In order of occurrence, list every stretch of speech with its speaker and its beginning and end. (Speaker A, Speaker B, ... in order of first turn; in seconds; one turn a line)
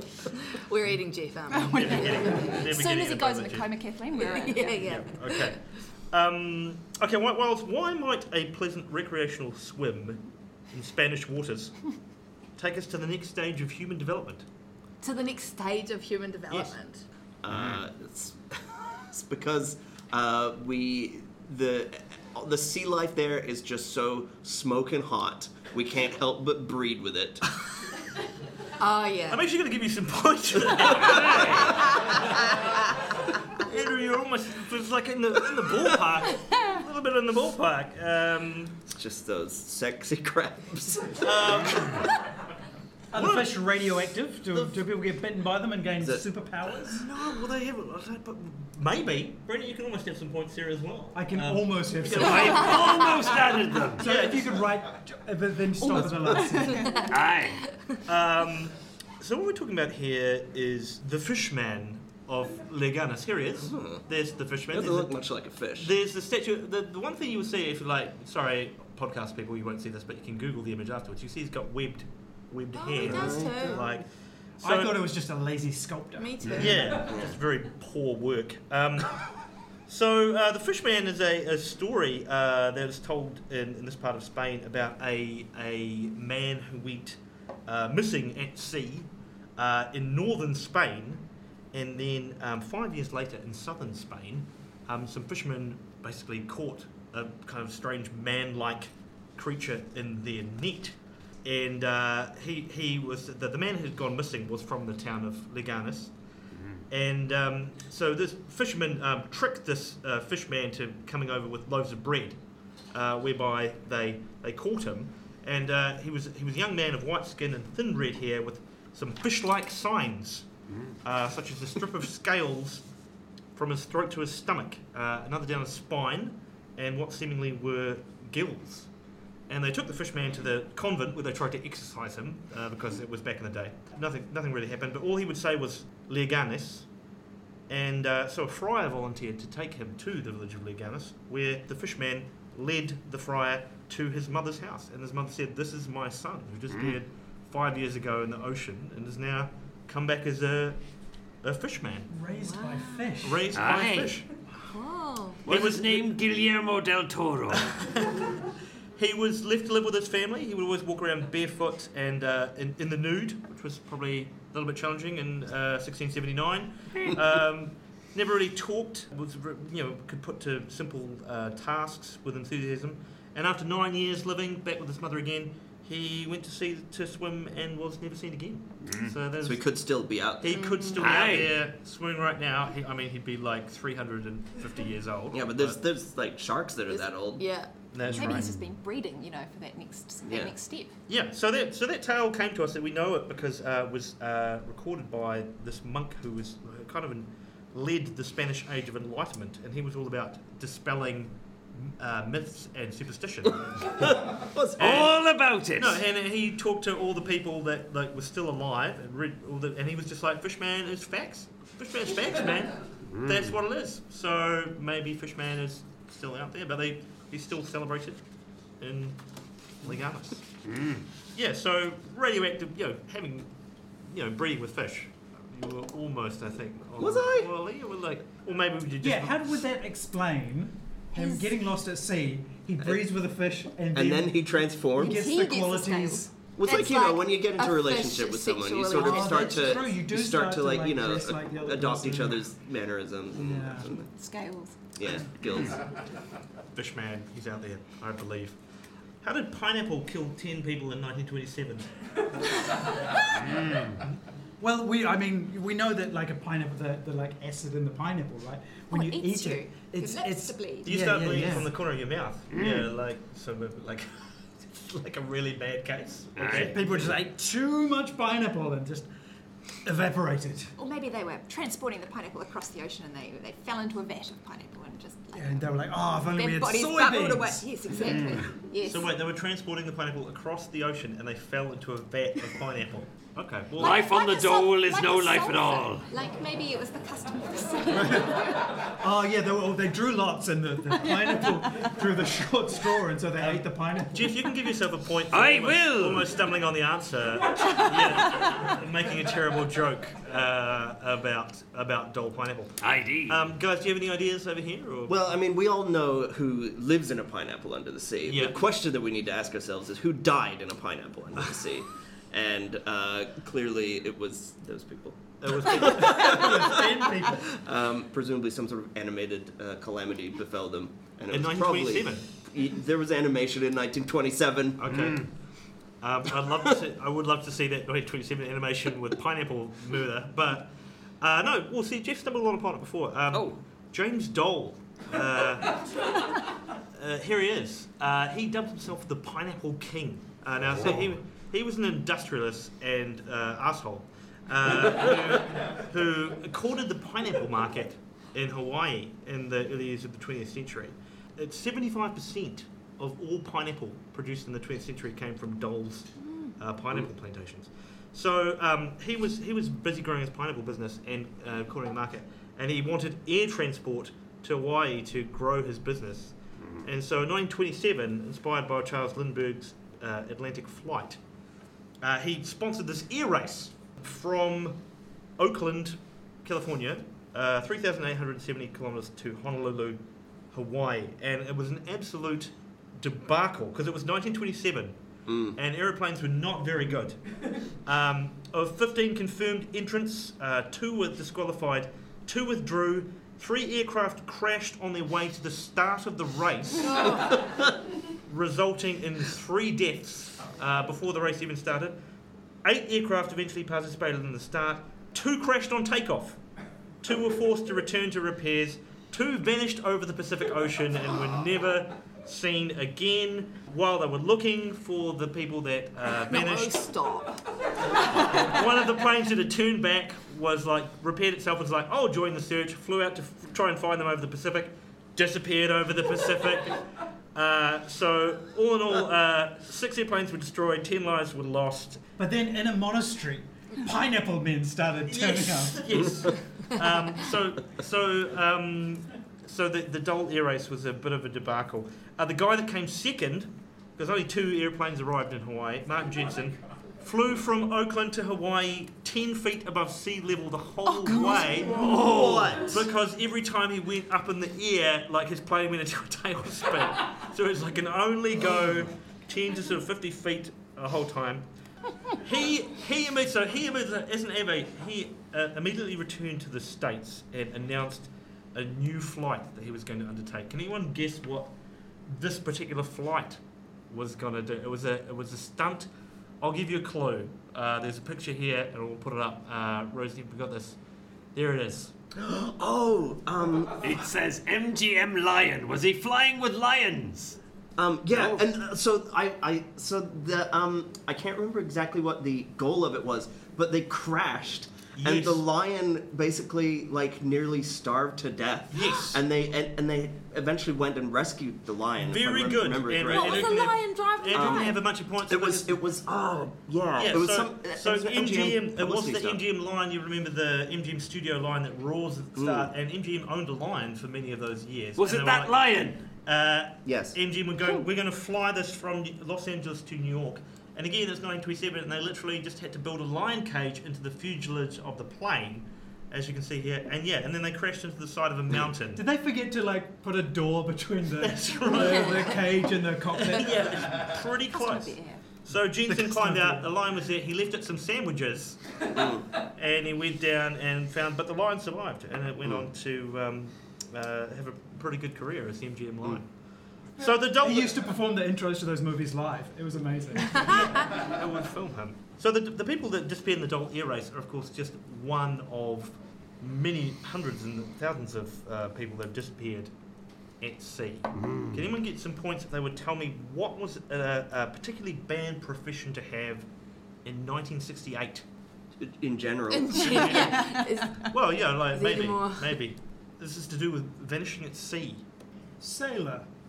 Speaker A: 0.5-2.5
Speaker B: 1.5-4.9
Speaker C: 1.6-3.8
Speaker A: 4.2-5.6
Speaker C: 4.8-11.8
Speaker C: 12.6-14.4
Speaker A: 15.0-17.0
Speaker D: 17.4-27.5
Speaker E: 17.5-17.8
Speaker A: 28.8-29.4
Speaker C: 29.3-32.4
Speaker E: 31.0-31.6
Speaker A: 31.8-32.3
Speaker C: 33.5-38.8
Speaker D: 38.9-41.6
Speaker C: 41.2-42.2
Speaker F: 43.1-47.1
Speaker C: 43.1-43.5
Speaker D: 46.0-46.2
Speaker C: 46.9-53.4
Speaker F: 51.1-52.8
Speaker E: 52.1-54.1
Speaker F: 54.0-57.1
Speaker C: 54.0-54.7
Speaker D: 56.1-56.4
Speaker A: 56.7-57.1
Speaker E: 57.1-57.6
Speaker C: 58.0-65.1
Speaker D: 63.7-64.0
Speaker D: 64.7-65.9
Speaker C: 65.8-74.0
Speaker A: 72.7-73.9
Speaker D: 73.1-73.6
Speaker F: 74.6-76.9
Speaker C: 74.6-75.1
Speaker A: 76.2-77.1
Speaker C: 76.6-79.2
Speaker D: 76.9-77.3
Speaker C: 79.9-106.1
Speaker C: 106.9-112.4
Speaker C: 112.9-120.5
Speaker C: 121.0-122.8
Speaker C: 123.5-128.9
Speaker C: 129.5-136.9
Speaker C: 137.7-150.8
Speaker C: 151.4-152.1
Speaker F: 152.1-153.6
Speaker A: 152.3-153.2
Speaker C: 153.2-154.3
Speaker E: 153.5-154.2
Speaker A: 154.7-155.4
Speaker E: 155.4-157.7
Speaker C: 155.4-156.1
Speaker C: 157.6-158.4
Speaker C: 159.0-179.6
Speaker E: 178.8-179.1
Speaker D: 179.4-180.6
Speaker C: 180.4-185.8
Speaker A: 180.5-181.2
Speaker E: 181.0-181.5
Speaker D: 185.3-187.5
Speaker A: 186.9-187.7
Speaker C: 187.9-188.5
Speaker B: 188.1-190.9
Speaker E: 188.3-188.5
Speaker D: 190.3-190.5
Speaker C: 191.1-204.2
Speaker D: 204.0-204.8
Speaker C: 204.8-218.2
Speaker E: 204.8-206.0
Speaker C: 218.8-219.2
Speaker C: 219.8-220.4
Speaker E: 220.7-221.0
Speaker C: 221.3-223.5
Speaker C: 224.1-229.6
Speaker D: 227.0-227.5
Speaker F: 229.0-236.3
Speaker B: 231.1-231.5
Speaker D: 232.8-233.1
Speaker D: 233.9-235.2
Speaker B: 235.0-236.3
Speaker D: 236.6-244.1
Speaker A: 236.6-239.8
Speaker F: 239.0-242.5
Speaker F: 243.3-243.9
Speaker B: 243.9-244.9
Speaker D: 245.0-245.9
Speaker C: 246.7-248.6
Speaker C: 249.2-251.9
Speaker F: 254.6-261.7
Speaker B: 258.9-261.0
Speaker C: 260.8-267.1
Speaker E: 262.5-262.9
Speaker E: 266.4-266.8
Speaker F: 266.4-269.1
Speaker F: 269.8-270.7
Speaker B: 270.8-275.7
Speaker F: 275.4-278.3
Speaker B: 276.3-279.1
Speaker E: 278.1-278.4
Speaker C: 278.8-284.1
Speaker E: 283.8-286.0
Speaker B: 283.8-288.8
Speaker F: 287.9-294.4
Speaker C: 293.4-305.1
Speaker E: 295.3-296.3
Speaker E: 302.8-303.4
Speaker D: 305.1-324.8
Speaker C: 308.3-308.6
Speaker C: 315.4-316.7
Speaker F: 315.8-317.5
Speaker C: 321.3-322.2
Speaker C: 324.8-325.3
Speaker E: 324.9-325.2
Speaker C: 326.0-335.8
Speaker C: 336.9-371.2
Speaker C: 372.0-374.8
Speaker C: 375.4-385.0
Speaker D: 385.3-385.6
Speaker C: 385.5-387.2
Speaker C: 387.8-397.3
Speaker C: 398.3-402.0
Speaker C: 402.6-406.4
Speaker C: 407.0-416.9
Speaker A: 416.3-417.4
Speaker C: 418.0-432.0
Speaker F: 432.2-435.9
Speaker C: 435.1-461.4
Speaker D: 451.6-452.8
Speaker E: 451.7-452.7
Speaker C: 462.1-471.5
Speaker C: 472.1-475.9
Speaker C: 476.4-480.8
Speaker C: 481.3-481.9
Speaker D: 482.1-483.9
Speaker E: 483.8-487.4
Speaker D: 487.8-503.6
Speaker E: 488.1-488.4
Speaker C: 494.9-495.4
Speaker C: 498.7-499.2
Speaker C: 502.0-505.8
Speaker A: 503.0-504.8
Speaker D: 504.3-509.4
Speaker C: 507.0-529.0
Speaker D: 512.4-512.7
Speaker E: 515.0-516.0
Speaker D: 516.8-517.2
Speaker F: 528.9-533.7
Speaker C: 531.2-532.4
Speaker C: 533.1-546.3
Speaker B: 534.5-535.2
Speaker F: 535.7-536.7
Speaker D: 538.9-539.2
Speaker C: 547.0-547.7
Speaker F: 547.3-550.7
Speaker C: 550.5-559.7
Speaker C: 560.4-566.5
Speaker E: 561.2-561.6
Speaker C: 567.0-568.2
Speaker D: 568.8-570.4
Speaker A: 569.5-571.1
Speaker C: 569.8-570.3
Speaker C: 571.0-575.0
Speaker A: 571.7-572.5
Speaker F: 575.6-576.2